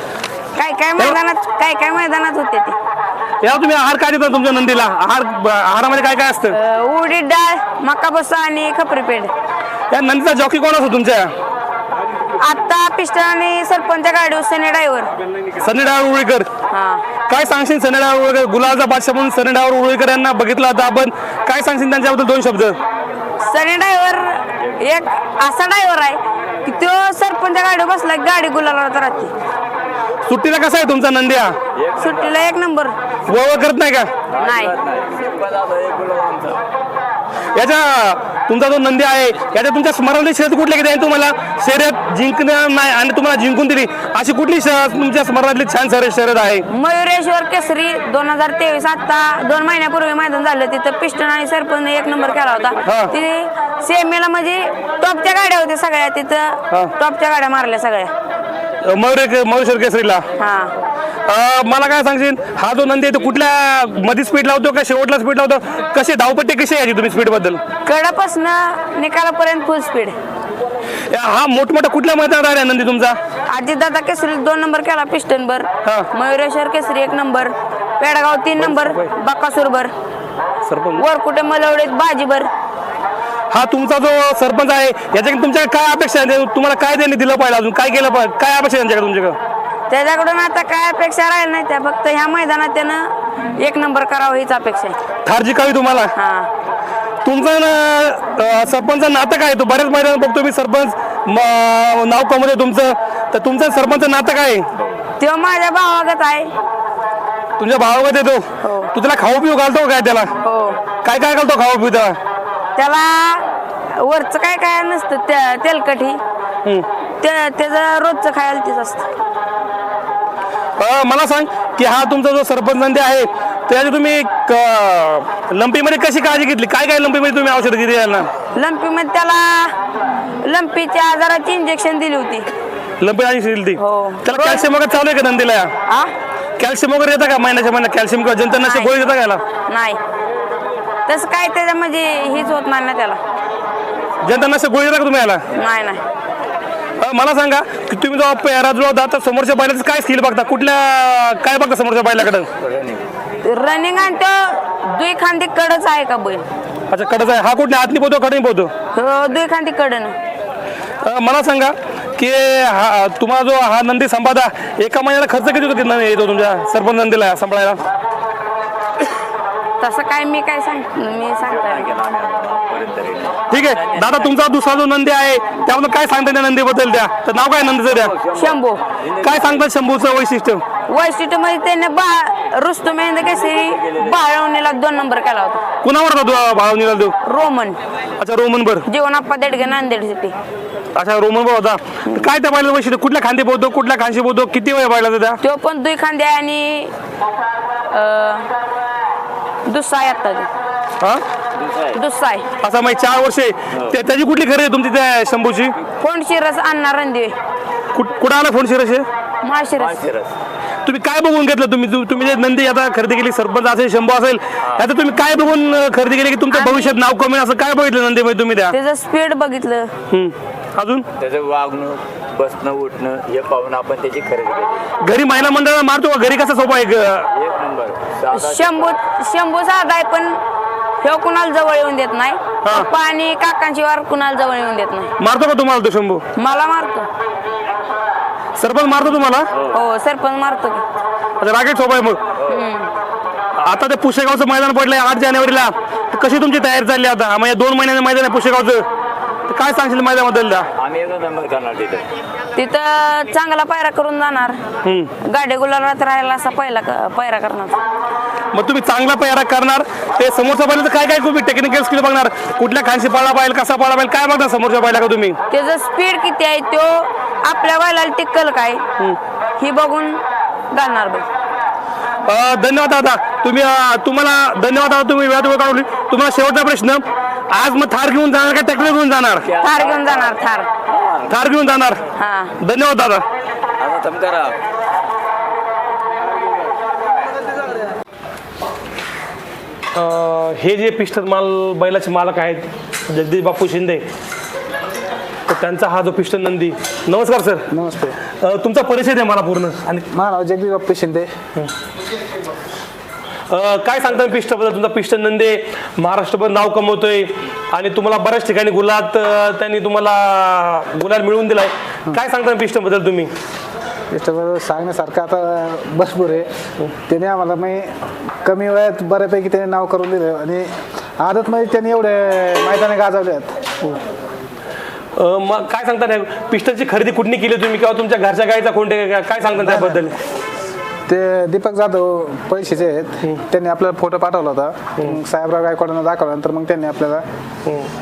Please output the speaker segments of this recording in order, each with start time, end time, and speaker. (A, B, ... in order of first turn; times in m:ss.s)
0:00.5-0:02.8 A
0:03.4-0:06.6 B
0:06.5-0:09.3 A
0:09.9-0:11.3 B
0:12.4-0:15.1 A
0:15.6-0:16.5 B
0:16.7-0:17.1 A
0:17.3-0:22.8 B
0:23.4-0:29.3 A
0:30.2-0:31.6 B
0:31.7-0:32.4 C
0:32.0-0:32.9 A
0:33.3-0:34.1 B
0:34.3-0:36.6 C
0:34.4-0:34.8 A
0:37.5-0:46.7 B
0:46.7-0:58.1 A
0:52.8-0:53.1 B
0:58.8-1:00.2 B
1:00.4-1:00.7 A
1:01.2-1:07.6 B
1:07.8-1:10.2 A
1:11.1-1:13.2 B
1:13.5-1:19.9 A
1:15.8-1:16.1 B
1:18.6-1:19.1 B
1:20.6-1:21.0 B
1:21.0-1:22.5 A
1:23.5-1:29.4 B
1:29.9-1:35.0 A
1:35.2-1:36.1 B
1:36.1-1:36.5 A
1:37.2-1:44.7 B
1:45.2-1:46.5 A
1:47.6-1:50.3 B
1:48.6-1:48.9 A
1:50.4-1:50.8 A
1:51.0-1:52.2 B
1:52.8-1:56.2 A
1:57.2-1:59.1 A
2:00.8-2:08.3 B
2:08.5-2:09.8 A
2:10.4-2:12.5 A
2:13.0-2:15.7 B
2:13.8-2:14.7 A
2:15.9-2:16.1 A
2:16.6-2:19.4 B
2:18.5-2:19.0 A
2:19.7-2:20.0 A
2:21.0-2:23.2 A
2:24.2-2:25.4 B
2:25.5-2:26.0 A
2:27.0-2:32.5 B
2:32.6-2:33.0 C
2:33.4-2:36.4 A
2:36.9-2:38.7 B
2:38.9-2:40.2 A
2:41.0-2:47.8 B
2:49.8-2:51.9 A
2:51.4-2:54.4 C
2:53.5-2:58.2 B
2:57.9-2:59.6 C
2:58.3-2:58.8 A
2:59.2-3:00.6 B
3:00.9-3:05.6 A
3:05.8-3:07.2 B
3:07.2-3:07.8 A
3:08.2-3:08.9 B
3:08.9-3:10.4 A
3:10.9-3:15.4 B
3:15.4-3:16.9 A
3:17.9-3:18.5 A
3:19.6-3:20.5 A
3:21.5-3:22.0 C
3:21.9-3:22.4 A
3:22.6-3:25.7 B
3:26.0-3:27.4 A
3:27.9-3:29.1 B
3:29.4-3:30.1 A
3:29.8-3:30.3 C
3:30.8-3:38.7 B
3:34.6-3:34.8 C
3:36.5-3:36.9 A
3:38.7-3:39.9 A
3:40.1-3:41.1 B
3:41.2-3:44.9 C
3:45.0-3:47.3 B
3:47.3-3:48.9 C
3:48.3-3:50.4 A
3:51.0-3:55.1 A
3:52.6-3:52.9 B
3:55.2-3:56.2 B
3:56.4-3:57.1 A
3:58.6-3:59.5 B
3:59.7-4:00.8 A
4:01.4-4:02.2 B
4:02.5-4:02.9 A
4:03.6-4:08.8 B
4:09.5-4:10.7 B
4:10.8-4:12.1 C
4:12.5-4:14.6 A
4:14.8-4:15.1 B
4:15.2-4:17.8 A
4:18.5-4:25.4 B
4:25.5-4:28.8 A
4:29.6-4:31.3 A
4:32.2-4:39.5 B
4:39.4-4:41.3 C
4:39.6-4:40.7 A
4:41.3-4:42.0 B
4:42.2-4:42.5 A
4:42.6-4:43.2 B
4:43.8-4:44.6 C
4:49.9-4:54.0 B
4:55.5-4:57.6 B
4:57.7-4:58.2 D
4:58.4-5:00.0 B
5:00.1-5:01.3 D
5:03.5-5:13.3 B
5:14.1-5:16.5 D
5:17.1-5:17.9 D
5:18.4-5:23.6 D
5:25.2-5:30.1 B
5:29.5-5:30.1 D
5:31.1-5:37.2 D